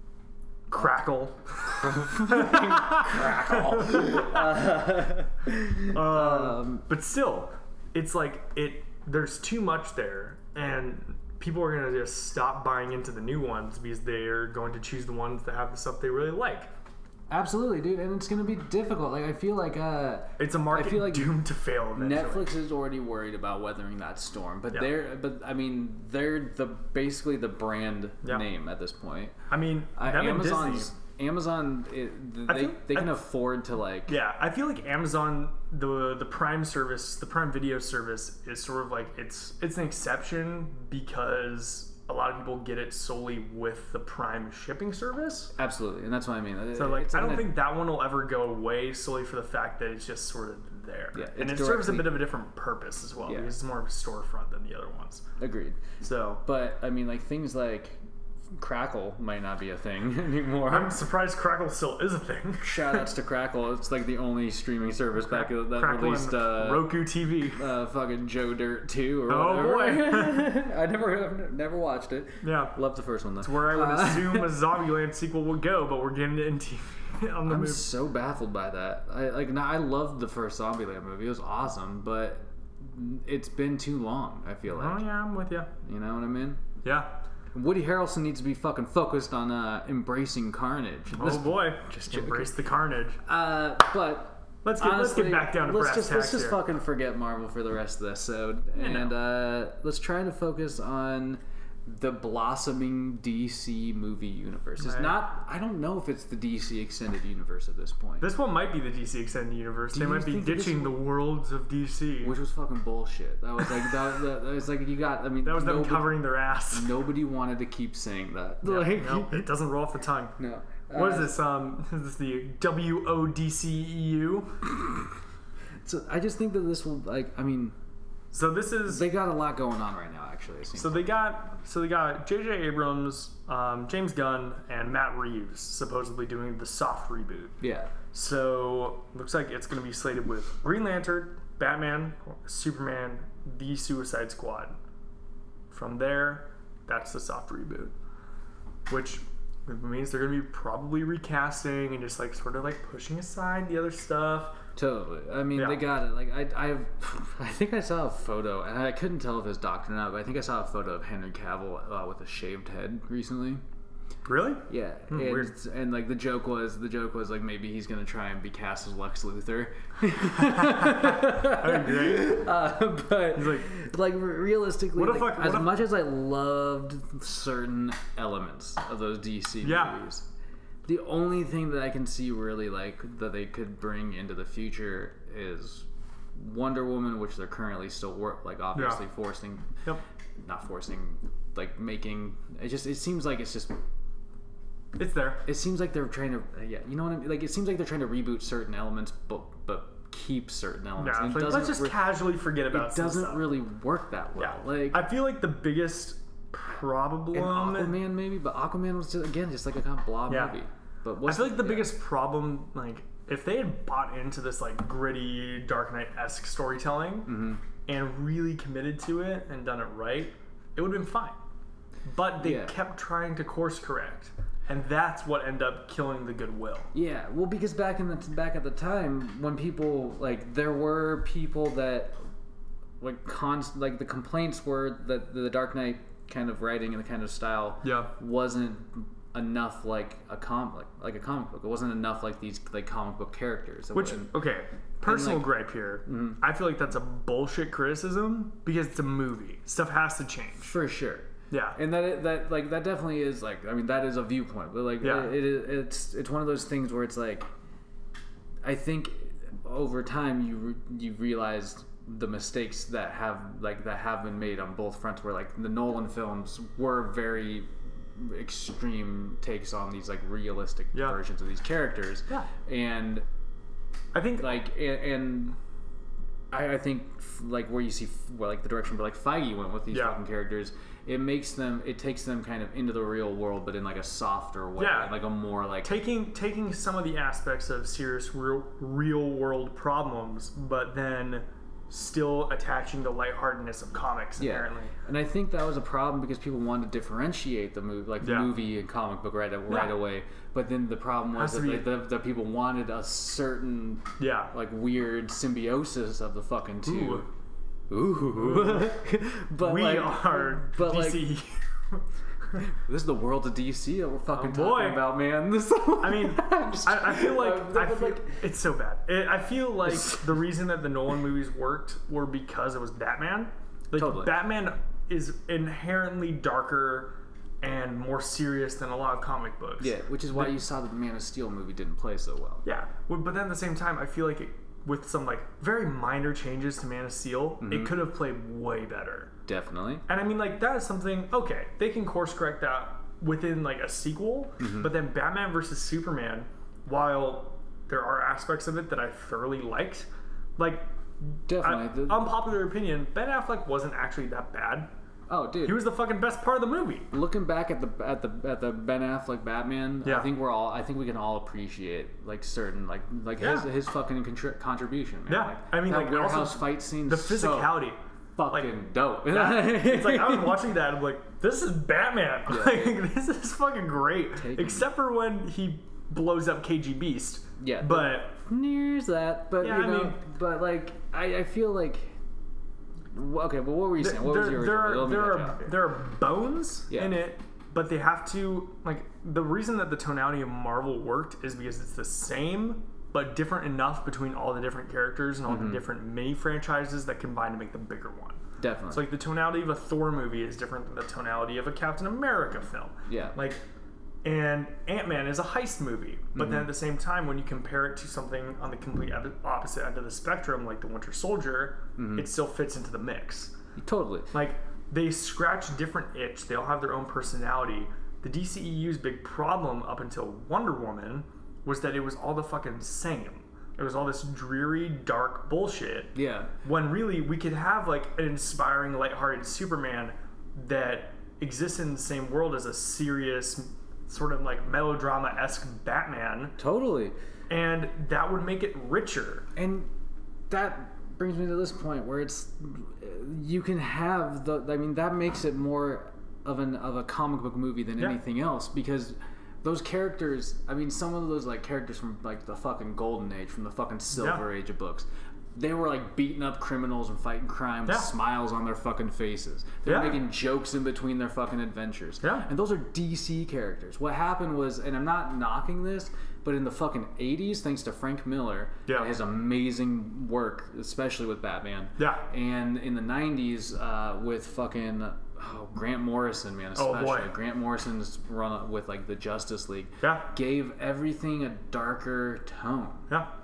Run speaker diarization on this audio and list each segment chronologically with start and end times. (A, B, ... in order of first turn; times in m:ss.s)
0:00.7-0:04.7 A
0:01.7-0:06.9 B
0:05.8-0:16.7 A
0:17.3-0:21.4 B
0:20.4-0:22.5 A
0:22.0-0:29.4 B
0:29.5-0:30.9 A
0:30.0-0:34.2 B
0:32.5-0:33.2 A
0:34.1-0:45.5 A
0:45.6-0:47.6 B
0:46.8-0:55.3 A
0:51.1-0:52.2 B
0:53.3-0:53.5 B
0:55.4-0:55.8 B
0:56.0-0:56.4 A
0:56.4-0:58.0 B
0:58.6-1:01.0 B
1:00.7-1:03.1 A
1:02.6-1:14.6 B
1:05.2-1:07.6 A
1:09.3-1:10.5 A
1:12.4-1:12.7 A
1:13.4-1:17.9 A
1:17.5-1:25.0 B
1:24.7-1:25.7 A
1:25.8-1:26.6 B
1:26.8-1:27.2 A
1:27.5-1:32.5 B
1:31.1-1:33.2 A
1:33.2-1:48.3 B
1:34.6-1:36.6 A
1:38.8-1:39.2 A
1:44.8-1:45.2 A
1:48.2-1:52.4 A
1:49.9-1:51.0 B
1:52.2-1:59.5 B
1:55.4-1:56.9 A
1:58.6-2:00.3 A
2:00.4-2:01.4 B
2:00.9-2:04.6 A
2:05.8-2:07.8 B
2:08.3-2:09.1 A
2:08.9-2:11.1 B
2:10.8-2:17.6 A
2:17.6-2:17.9 B
2:18.1-2:24.8 A
2:25.7-2:27.9 A
2:28.9-2:34.6 A
2:34.8-2:43.6 B
2:35.6-2:35.8 A
2:44.2-2:45.5 A
2:44.7-3:00.3 B
2:50.6-2:52.4 A
2:53.4-2:53.7 A
2:55.0-2:55.8 A
2:59.6-3:00.0 A
3:00.9-3:09.8 B
3:08.7-3:09.0 A
3:10.4-3:13.8 B
3:15.0-3:15.4 A
3:15.4-3:22.1 B
3:21.0-3:23.5 A
3:22.7-3:25.1 B
3:24.4-3:28.0 A
3:27.3-3:32.0 B
3:30.3-3:30.6 A
3:31.2-3:41.4 A
3:37.3-3:37.6 B
3:42.1-3:46.9 A
3:42.4-3:42.8 B
3:46.9-3:52.2 B
3:53.0-4:04.3 B
3:57.8-3:58.1 A
4:03.9-4:10.7 A
4:05.0-4:05.5 B
4:06.1-4:06.4 B
4:10.6-4:17.5 B
4:11.5-4:11.8 A
4:15.0-4:15.4 A
4:18.6-4:33.2 B
4:34.1-4:34.6 A
4:34.4-4:35.6 B
4:36.5-4:46.0 B
4:39.9-4:40.2 A
4:44.8-4:45.2 A
4:45.8-4:54.9 A
4:54.4-5:07.3 B
4:58.2-4:58.5 A
4:59.7-5:00.0 A
5:01.3-5:01.9 A
5:04.2-5:04.5 A
5:06.8-5:07.2 A
5:07.9-5:11.3 B
5:08.4-5:08.9 A
5:09.6-5:12.0 A
5:12.6-5:18.4 B
5:14.3-5:15.1 A
5:16.0-5:30.6 A
5:19.9-5:20.2 B
5:24.0-5:24.4 B
5:29.8-5:32.6 B
5:32.6-5:39.3 A
5:37.6-5:38.0 B
5:39.5-5:40.0 B
5:40.1-5:50.9 A
5:44.6-5:44.9 B
5:51.5-5:52.3 B
5:51.6-5:54.9 A
5:55.3-5:55.9 B
5:55.6-5:57.1 A
5:57.1-6:07.8 B
6:00.0-6:00.3 A
6:03.4-6:03.7 A
6:05.3-6:08.0 A
6:08.4-6:10.6 B
6:08.5-6:18.4 A
6:12.5-6:13.0 B
6:14.4-6:14.9 B
6:17.6-6:22.2 B
6:19.6-6:20.2 A
6:23.1-6:25.8 B
6:24.0-6:43.6 A
6:26.9-6:27.2 B
6:35.5-6:35.8 B
6:38.6-6:39.1 B
6:43.1-6:43.4 B
6:44.2-6:53.5 A
6:46.4-6:46.7 B
6:52.0-6:52.3 B
6:53.8-6:54.3 B
6:54.3-7:16.6 A
7:06.2-7:06.5 B
7:16.6-7:17.2 B
7:17.5-7:19.5 A
7:19.6-7:19.9 B
7:20.5-8:03.1 B
7:34.1-7:34.4 A
7:39.8-7:40.2 A
7:42.2-7:42.5 A
7:48.9-7:49.1 A
7:52.0-7:52.2 A
7:56.8-7:57.3 A
8:00.0-8:00.3 A